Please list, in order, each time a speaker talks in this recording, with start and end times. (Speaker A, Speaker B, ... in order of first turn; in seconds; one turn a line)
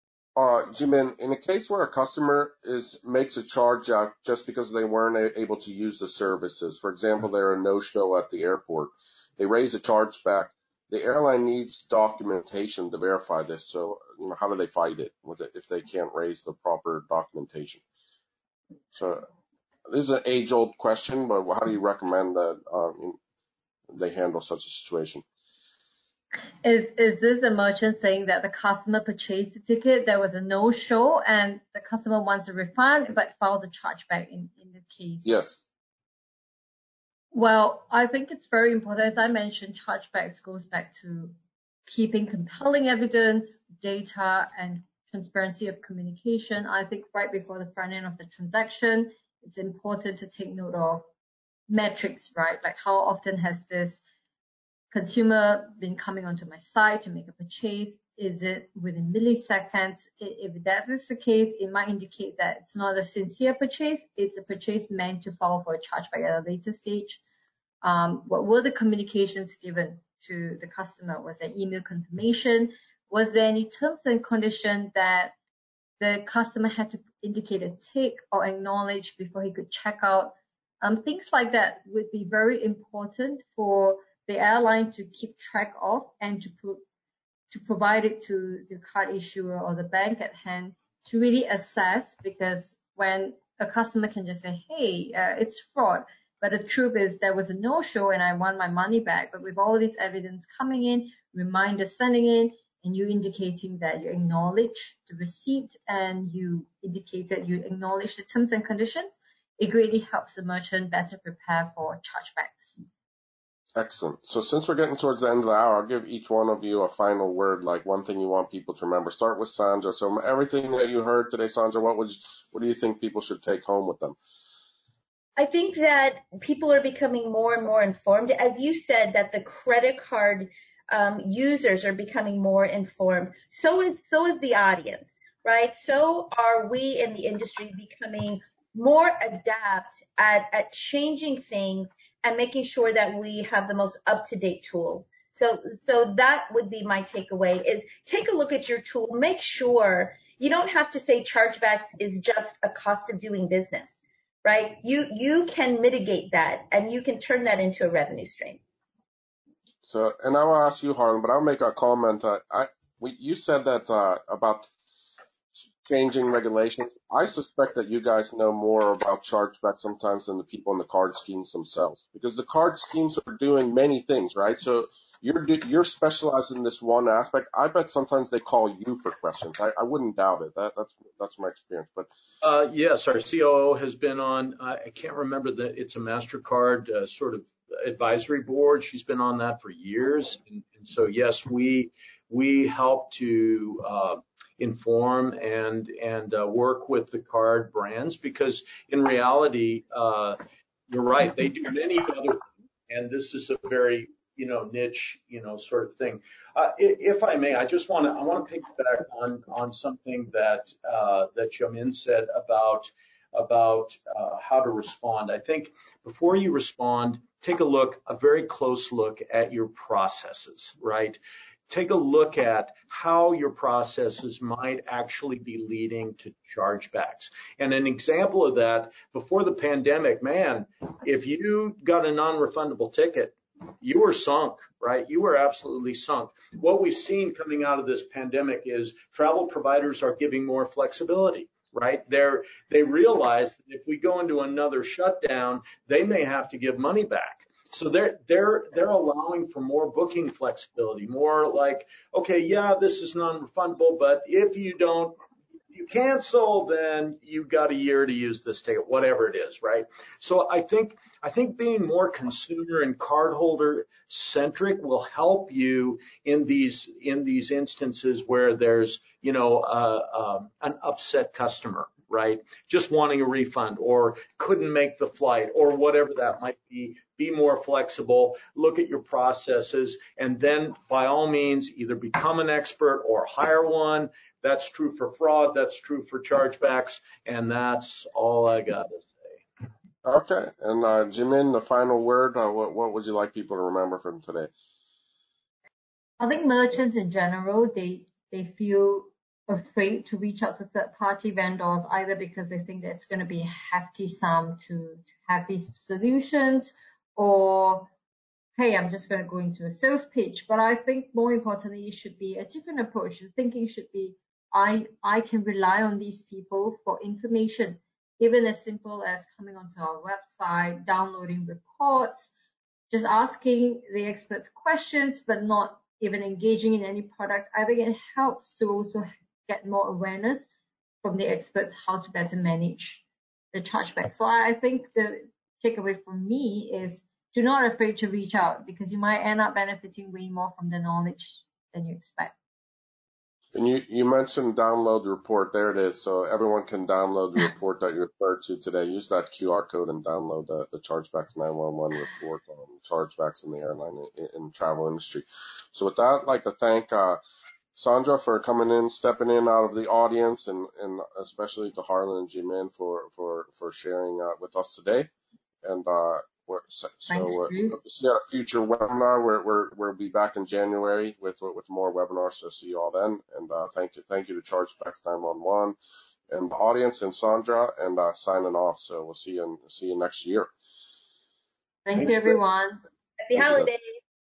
Speaker A: 0.4-17.8
Speaker A: 18.9-19.3
Speaker A: 19.9-23.2
Speaker A: 23.9-25.2
Speaker B: 26.6-35.3
Speaker A: 35.2-35.6
Speaker B: 37.3-41.4
Speaker B: 41.9-51.1
Speaker B: 51.7-54.0
Speaker B: 54.9-67.2
Speaker B: 67.8-75.3
Speaker B: 76.0-86.8
Speaker B: 87.5-112.8
Speaker A: 113.8-124.2
Speaker C: 125.4-158.6
Speaker A: 159.8-164.7
Speaker A: 165.6-182.1
Speaker D: 182.4-255.2
Speaker D: 255.7-289.4
Speaker A: 290.1-294.5
Speaker B: 296.2-307.9
Speaker B: 308.6-322.3
Speaker B: 322.9-330.5
Speaker B: 331.0-342.4
Speaker A: 343.5-357.2
Speaker A: 357.8-365.1
Speaker A: 365.6-375.8
Speaker B: 367.1-367.8
Speaker A: 376.3-380.5
Speaker B: 381.9-382.8
Speaker D: 381.9-382.4
Speaker C: 383.2-384.0
Speaker A: 383.4-383.7